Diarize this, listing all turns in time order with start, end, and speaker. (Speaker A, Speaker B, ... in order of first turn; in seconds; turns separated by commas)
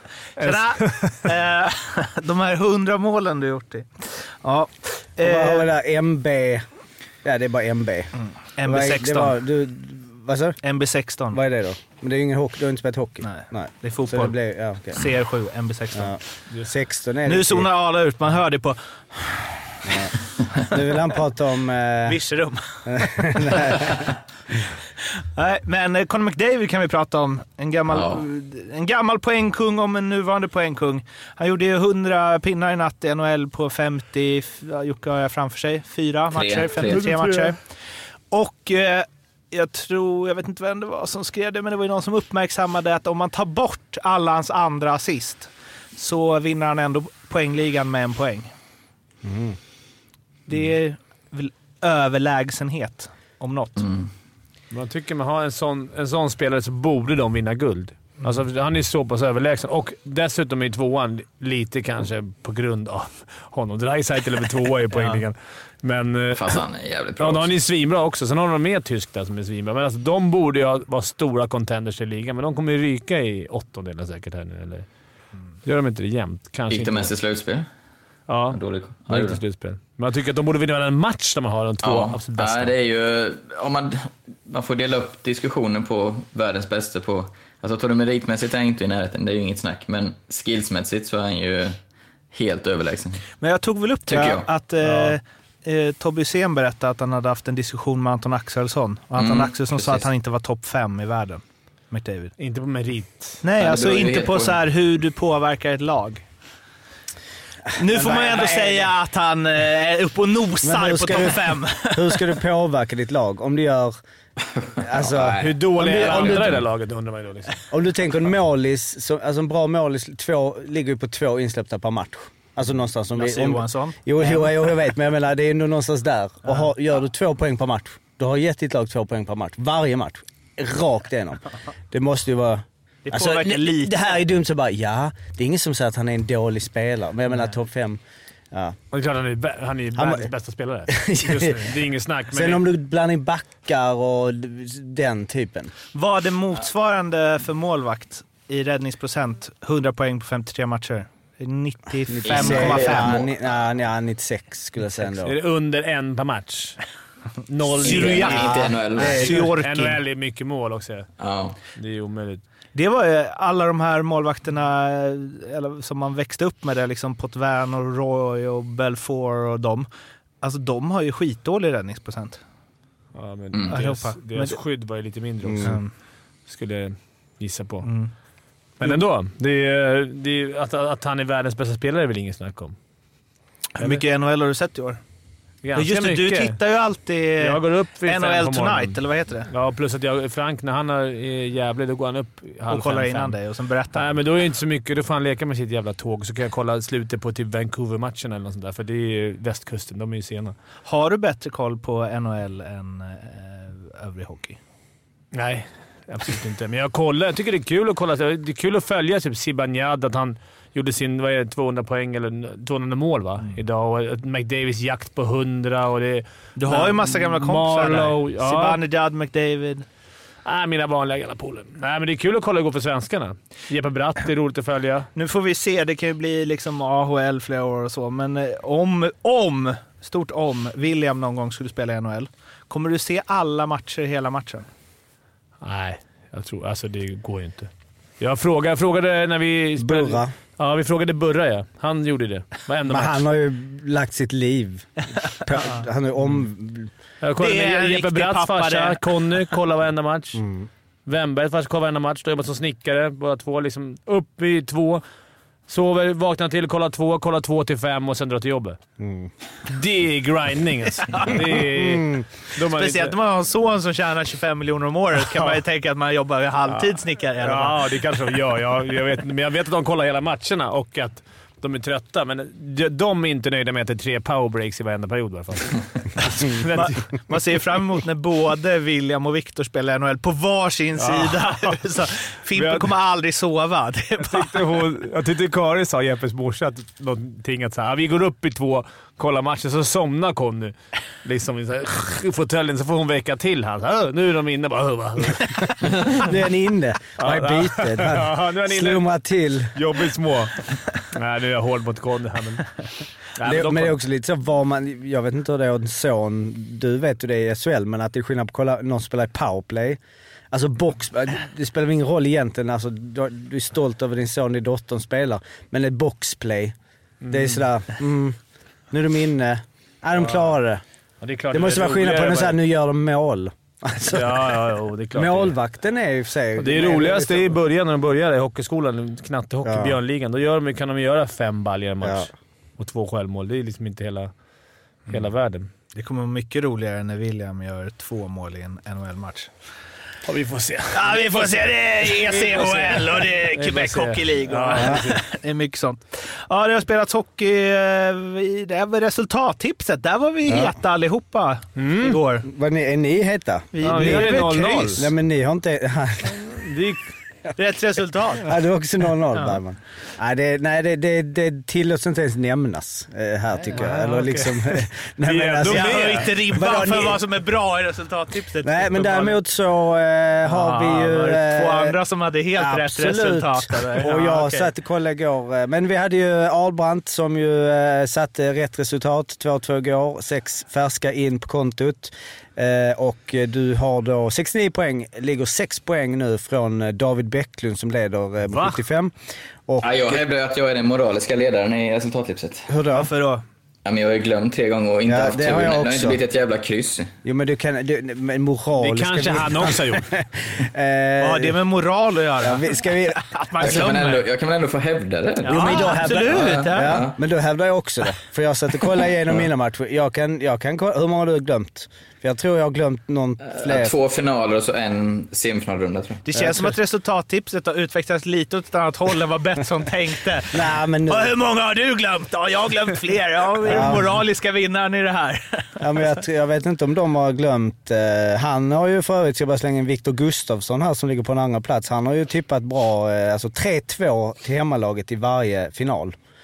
Speaker A: 0.4-1.1, Speaker B: 0.4-5.7, Speaker C: 5.2-6.7, Speaker C: 7.2-10.6, Speaker B: 8.2-9.4, Speaker B: 10.6-11.4, Speaker C: 11.3-15.1, Speaker B: 13.2-14.3, Speaker B: 14.9-16.2, Speaker C: 15.9-17.7, Speaker B: 17.3-20.1, Speaker C: 19.9-22.2, Speaker B: 22.1-24.1, Speaker C: 22.9-24.0, Speaker B: 25.4-37.7, Speaker D: 27.9-28.2, Speaker D: 36.3-37.1, Speaker A: 37.0-37.5, Speaker B: 38.3-48.5, Speaker C: 49.2-49.6, Speaker B: 50.5-53.9, Speaker D: 53.8-54.1, Speaker A: 54.7-66.6, Speaker B: 64.9-65.2, Speaker D: 66.3-67.5, Speaker A: 67.2-74.9, Speaker A: 75.7-77.1, Speaker D: 76.7-77.7, Speaker A: 78.3-82.7, Speaker D: 78.5-79.4, Speaker D: 81.8-91.8, Speaker D: 92.3-93.2, Speaker B: 93.4-102.3, Speaker D: 94.1-94.5, Speaker A: 94.8-95.2, Speaker D: 99.2-100.1, Speaker A: 102.4-103.4, Speaker B: 103.4-106.2, Speaker D: 103.6-104.7, Speaker B: 107.8-112.3, Speaker C: 107.8-108.9, Speaker C: 110.6-114.0, Speaker D: 114.5-115.5, Speaker C: 114.8-116.7, Speaker A: 115.3-117.5, Speaker C: 117.7-138.0, Speaker B: 123.2-124.5, Speaker B: 133.1-134.1, Speaker C: 138.5-138.8, Speaker A: 138.9-142.6, Speaker C: 140.0-140.3, Speaker C: 140.9-141.7, Speaker C: 142.3-145.7, Speaker B: 145.9-153.2, Speaker C: 152.1-155.3, Speaker D: 152.2-153.3, Speaker A: 155.2-156.8, Speaker A: 157.5-158.5, Speaker B: 157.8-160.0, Speaker D: 157.8-159.4, Speaker C: 158.2-159.5, Speaker A: 159.3-161.1, Speaker D: 161.2-161.6, Speaker A: 161.8-162.4, Speaker B: 162.7-169.9, Speaker B: 170.4-172.4, Speaker A: 173.2-175.8, Speaker B: 173.7-174.6, Speaker C: 175.4-175.8, Speaker B: 175.6-175.9, Speaker A: 176.5-177.9, Speaker B: 177.8-178.1, Speaker A: 178.8-182.8, Speaker B: 183.8-185.0, Speaker A: 183.8-184.0, Speaker A: 185.6-186.6, Speaker B: 185.7-189.5, Speaker A: 187.4-193.4, Speaker B: 192.7-194.2, Speaker A: 193.9-200.6, Speaker B: 200.9-204.6, Speaker A: 205.3-218.8, Speaker B: 216.6-219.9, Speaker A: 220.4-225.1, Speaker B: 225.2-234.7, Speaker A: 235.6-243.2, Speaker C: 239.8-240.3, Speaker C: 242.9-246.9, Speaker B: 245.5-245.8, Speaker A: 247.2-250.4, Speaker B: 247.4-249.4, Speaker C: 250.3-250.7, Speaker A: 251.1-255.0, Speaker A: 255.7-258.8, Speaker C: 259.0-259.3, Speaker A: 259.7-263.2, Speaker B: 261.0-261.7, Speaker C: 261.8-262.2, Speaker B: 262.6-268.3, Speaker A: 266.7-277.1, Speaker B: 276.8-284.8, Speaker A: 281.0-281.8, Speaker A: 282.6-282.9, Speaker A: 284.2-296.2, Speaker C: 296.1-299.8, Speaker A: 297.2-299.1, Speaker A: 299.7-302.7, Speaker A: 303.4-304.0, Speaker C: 303.4-310.0, Speaker C: 310.5-316.8, Speaker A: 317.2-317.6, Speaker C: 317.3-318.4, Speaker C: 318.9-320.8, Speaker A: 321.2-322.6, Speaker C: 321.5-324.5, Speaker A: 324.1-325.6, Speaker C: 325.1-327.6, Speaker A: 326.6-334.3, Speaker C: 329.6-330.0, Speaker C: 332.0-332.3, Speaker A: 335.1-335.7, Speaker B: 335.9-339.5, Speaker A: 340.2-345.1, Speaker B: 340.9-352.5, Speaker C: 344.8-345.1, Speaker C: 350.5-350.8, Speaker A: 351.8-352.2, Speaker C: 352.4-356.7, Speaker B: 353.7-355.1, Speaker A: 353.8-355.1, Speaker A: 356.3-357.0, Speaker B: 357.6-358.6, Speaker C: 358.4-367.2, Speaker B: 359.3-359.6, Speaker B: 363.7-364.4, Speaker A: 364.2-364.5, Speaker A: 365.2-366.3, Speaker B: 365.6-369.4, Speaker C: 368.6-372.0, Speaker B: 370.5-374.7, Speaker C: 372.6-389.1, Speaker A: 388.5-388.8, Speaker C: 389.7-390.2, Speaker D: 389.8-392.7, Speaker C: 392.7-393.1, Speaker B: 392.9-393.4, Speaker D: 393.9-397.1, Speaker C: 395.1-396.2, Speaker C: 397.2-401.6, Speaker A: 398.8-400.1, Speaker B: 401.2-404.2, Speaker C: 402.4-403.9, Speaker D: 403.6-407.2, Speaker B: 405.4-407.0, Speaker C: 405.4-413.9, Speaker D: 413.5-416.2, Speaker B: 416.2-426.1, Speaker C: 420.5-421.3, Speaker C: 423.7-424.1, Speaker C: 425.8-436.2